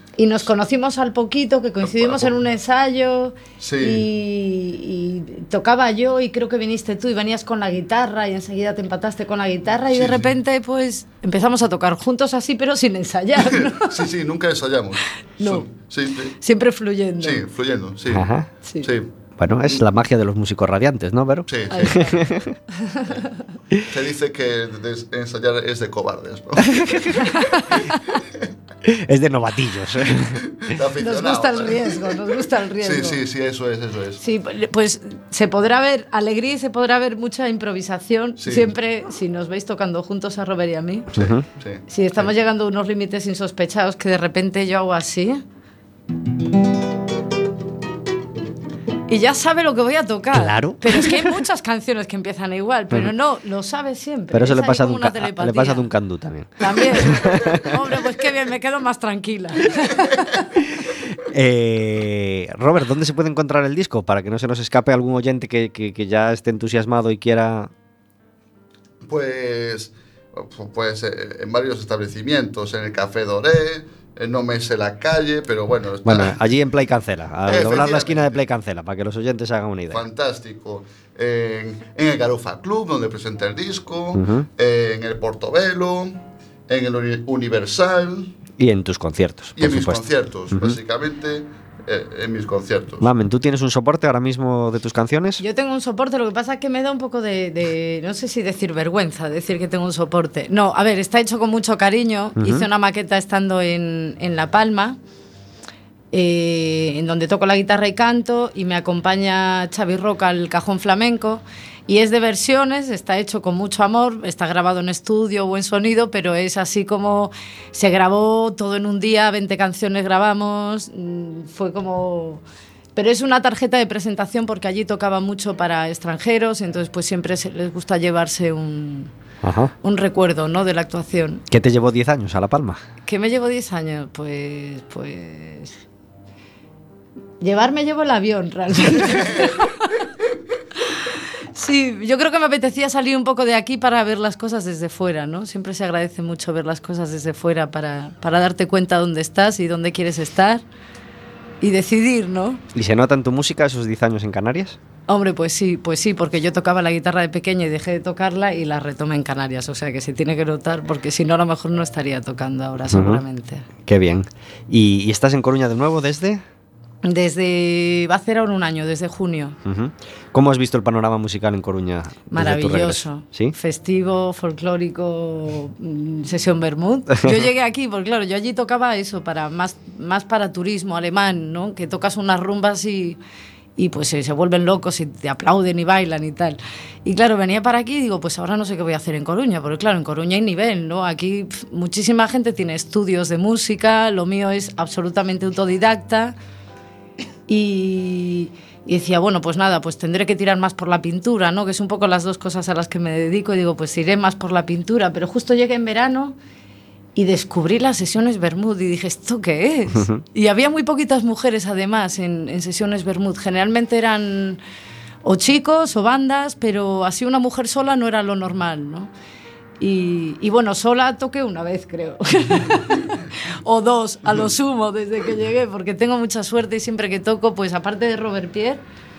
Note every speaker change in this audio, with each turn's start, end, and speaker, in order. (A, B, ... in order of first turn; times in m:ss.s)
0:00.2-0:14.0 A
0:01.8-0:02.4 B
0:03.6-0:04.0 B
0:09.9-0:10.3 B
0:13.5-0:16.3 B
0:15.4-0:15.7 A
0:16.4-0:17.4 A
0:17.2-0:18.3 B
0:18.1-0:18.5 C
0:18.6-0:18.9 A
0:18.8-0:19.1 B
0:19.4-0:22.6 C
0:21.5-0:22.4 B
0:21.7-0:22.2 A
0:22.7-0:23.4 A
0:23.9-0:28.4 B
0:26.6-0:27.2 C
0:27.3-0:28.2 A
0:28.8-0:30.4 C
0:30.2-0:32.2 B
0:31.0-0:33.2 A
0:32.8-0:34.2 B
0:34.2-0:41.1 A
0:38.4-0:38.7 B
0:41.1-0:41.4 C
0:41.2-0:42.3 B
0:41.9-0:45.4 A
0:49.1-0:55.9 A
0:50.3-0:51.4 C
0:54.3-0:57.7 C
0:56.6-1:00.5 A
1:01.2-1:07.7 C
1:09.0-1:16.4 B
1:16.0-1:20.0 C
1:17.4-1:18.4 B
1:19.9-1:26.1 B
1:24.1-1:24.5 C
1:26.7-1:28.4 B
1:28.6-1:30.8 C
1:29.6-1:33.1 B
1:33.0-1:35.4 C
1:35.4-1:45.0 A
1:42.4-1:42.7 C
1:46.1-2:02.4 A
2:02.9-2:09.1 A
2:09.4-2:09.7 C
2:09.8-2:11.4 A
2:11.5-2:12.8 C
2:13.0-2:15.8 A
2:17.4-2:19.9 A
2:19.1-2:19.4 B
2:21.5-2:30.6 A
2:31.6-2:32.6 A
2:32.7-2:34.8 C
2:35.1-2:43.6 A
2:42.9-2:43.2 C
2:43.8-2:46.4 C
2:47.0-2:49.6 A
2:49.6-2:53.5 C
2:52.3-3:03.2 A
3:03.8-3:16.4 A
3:17.5-3:26.4 A
3:27.1-3:34.6 A
3:29.9-3:30.2 C
3:35.2-3:39.1 A
3:39.8-3:48.8 A